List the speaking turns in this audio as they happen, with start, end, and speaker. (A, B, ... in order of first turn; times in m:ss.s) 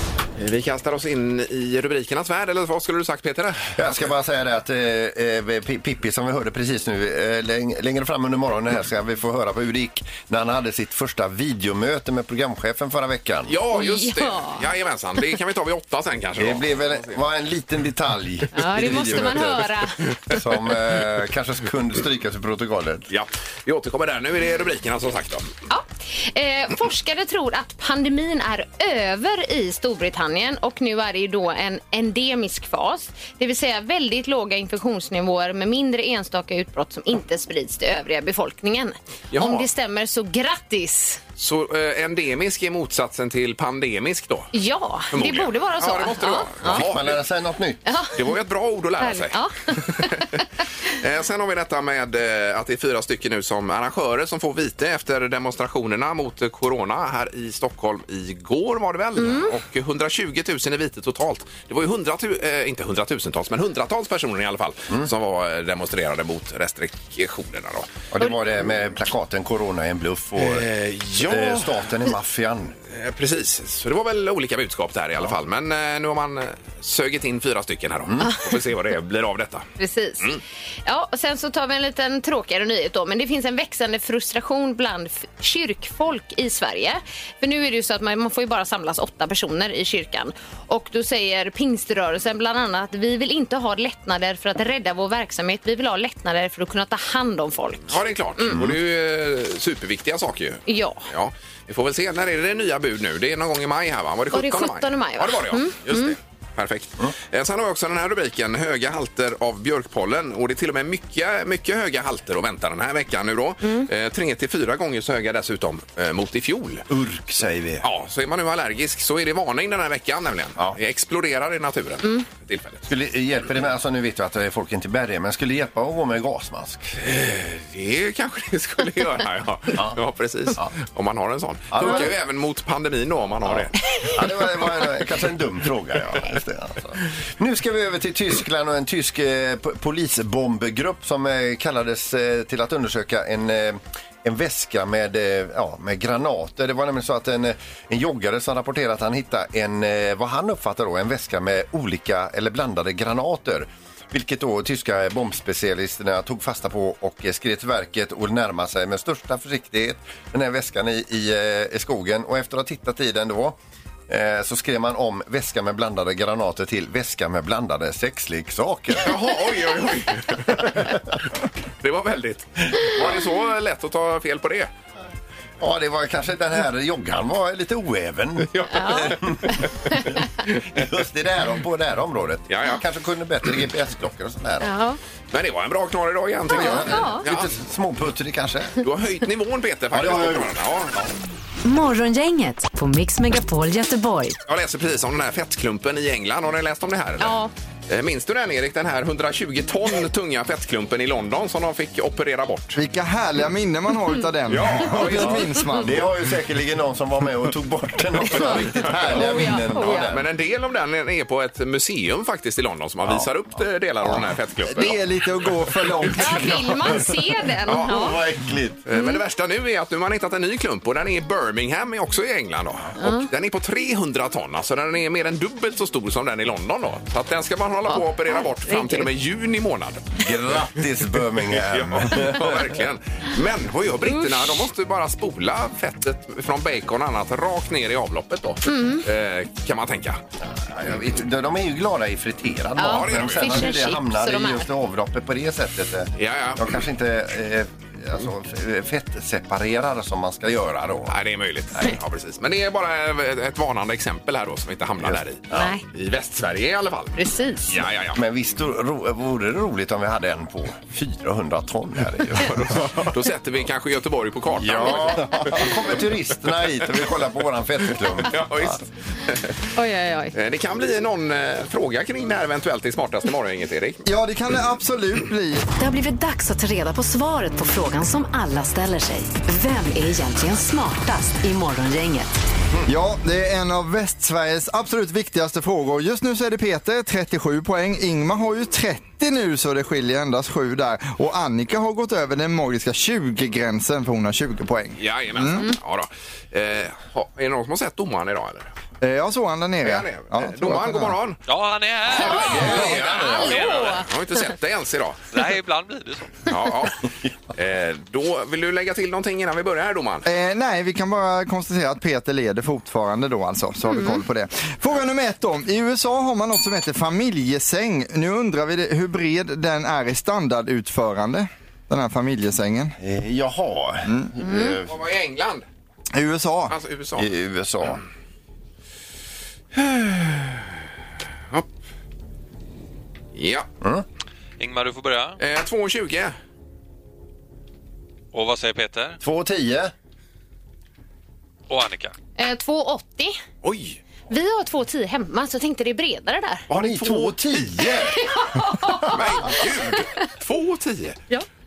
0:00.4-0:03.8 A
0:03.8-0:13.6 B
0:13.5-0:17.2 A
0:13.7-0:14.6 C
0:16.4-0:19.7 B
0:18.5-0:20.0 C
0:20.3-0:23.1 B
0:23.1-0:25.5 A
0:25.7-0:41.2 C
0:39.3-0:39.7 A
0:41.4-0:44.5 A
0:44.5-0:46.8 C
0:45.1-0:47.2 A
0:46.6-0:47.8 B
0:47.9-0:48.2 C
0:48.2-1:07.9 A
0:49.0-0:50.4 C
0:59.2-0:59.6 C
1:08.1-1:12.8 B
1:10.4-1:11.9 A
1:12.9-1:19.7 A
1:19.8-1:38.6 C
1:37.9-1:56.8 A
1:40.7-1:41.1 C
1:44.3-1:46.2 C
1:56.9-1:57.9 B
1:57.8-2:02.9 A
2:02.9-2:06.9 B
2:07.0-2:13.8 A
2:09.7-2:10.0 B
2:11.7-2:12.1 B
2:13.5-2:49.2 B
2:49.0-2:51.2 A
2:51.8-2:54.7 A
2:55.6-2:59.6 B
2:58.5-2:59.7 A
2:58.7-3:00.2 C
3:00.7-3:04.7 B
3:02.5-3:02.8 A
3:04.6-3:05.0 C
3:05.3-3:07.5 A
3:06.5-3:08.8 B
3:06.5-3:07.2 C
3:08.8-3:11.1 A
3:09.9-3:10.5 B
3:11.6-3:14.4 D
3:14.5-3:17.4 A
3:17.2-3:17.5 C
3:17.9-3:22.8 A
3:22.8-3:26.0 E
3:24.5-3:25.5 A
3:25.0-3:30.3 B
3:28.3-3:35.0 A
3:28.3-3:30.1 C
3:33.0-3:33.3 B
3:34.0-3:37.1 E
3:36.2-3:38.2 C
3:37.7-3:38.0 A
3:37.7-3:38.8 B
3:38.9-3:50.2 A
3:38.9-3:39.2 C
3:43.0-3:43.3 C
3:47.9-3:49.1 C
3:50.2-3:52.7 B
3:51.5-4:00.2 A
3:54.0-3:54.6 C
3:58.6-3:59.0 C
4:00.4-4:11.2 B
4:02.8-4:04.7 C
4:02.8-4:03.7 A
4:06.2-4:06.8 A
4:11.1-4:18.2 A
4:15.0-4:15.7 B
4:15.5-4:15.8 C
4:17.2-4:17.8 C
4:18.1-4:23.0 B
4:22.3-4:25.8 A
4:24.5-4:28.8 B
4:28.0-4:29.6 A
4:29.8-4:30.3 C
4:30.3-4:34.0 A
4:34.1-4:35.6 E
4:35.8-4:42.4 D
4:42.9-4:55.6 E
4:55.0-4:58.7 A
4:59.0-5:01.2 E
4:59.8-5:01.4 A
5:01.5-5:03.9 F
5:02.1-5:04.1 C
5:02.2-5:05.2 A
5:02.2-5:03.6 B
5:05.3-5:06.4 F
5:06.5-5:07.0 A
5:07.5-5:10.3 A
5:10.2-5:23.0 E
5:13.9-5:14.2 C
5:23.0-5:25.0 B
5:24.4-5:24.8 C
5:24.9-5:25.7 A
5:26.1-5:26.8 E
5:26.7-5:27.3 A
5:27.2-5:28.0 B
5:29.7-5:30.7 A
5:33.3-5:33.7 A
5:34.6-5:35.4 F
5:35.4-5:36.4 A
5:38.3-5:39.2 F
5:39.2-5:39.9 B
5:41.7-5:42.1 F
5:42.4-5:43.4 C
5:43.6-5:44.0 A
5:44.3-5:46.6 C
5:46.7-5:47.6 A
5:46.7-5:48.2 B
5:48.0-5:50.0 C
5:49.1-5:51.2 A